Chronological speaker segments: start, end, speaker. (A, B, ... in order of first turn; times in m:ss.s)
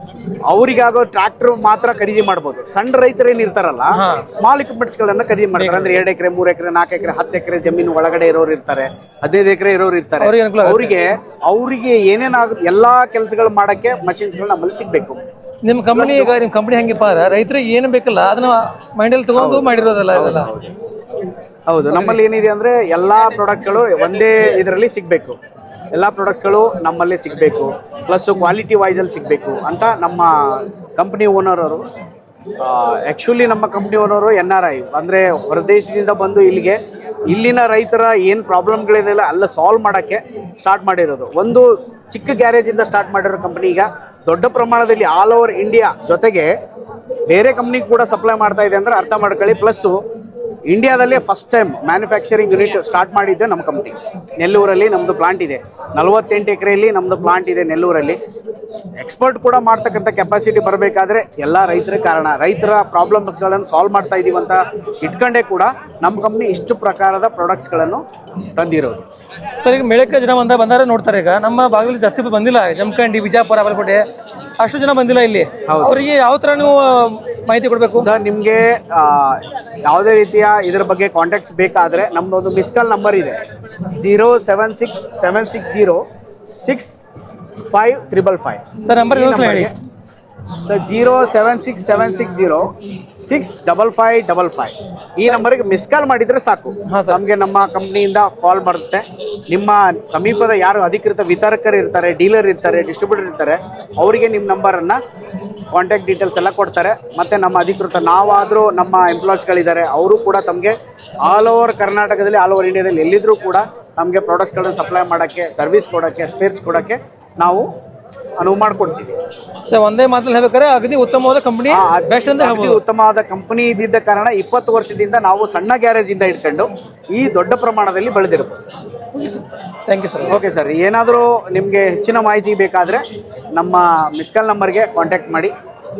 0:00.5-0:15.2 A
0:03.9-0:04.2 B
0:05.5-0:06.0 B
0:10.2-0:11.0 B
0:15.6-0:20.5 B
0:15.9-0:16.4 A
0:19.3-0:20.7 A
0:21.7-0:25.4 A
0:25.9-0:31.8 A
0:32.6-0:46.5 A
0:47.3-0:50.0 A
0:50.7-0:58.2 A
0:59.0-1:09.0 A
1:09.6-1:14.0 B
1:14.6-1:18.1 B
1:15.6-1:16.0 A
1:18.0-1:23.4 A
1:23.9-1:26.0 A
1:26.6-1:27.0 A
1:27.7-1:29.7 A
1:28.8-1:29.7 B
1:30.6-1:32.7 A
1:33.2-1:45.0 A
1:36.9-1:37.2 B
1:45.7-1:57.7 A
1:58.4-1:59.2 A
1:59.7-2:02.8 B
2:01.7-2:08.7 A
2:09.1-2:10.4 B
2:10.3-2:13.0 A
2:13.5-2:15.5 A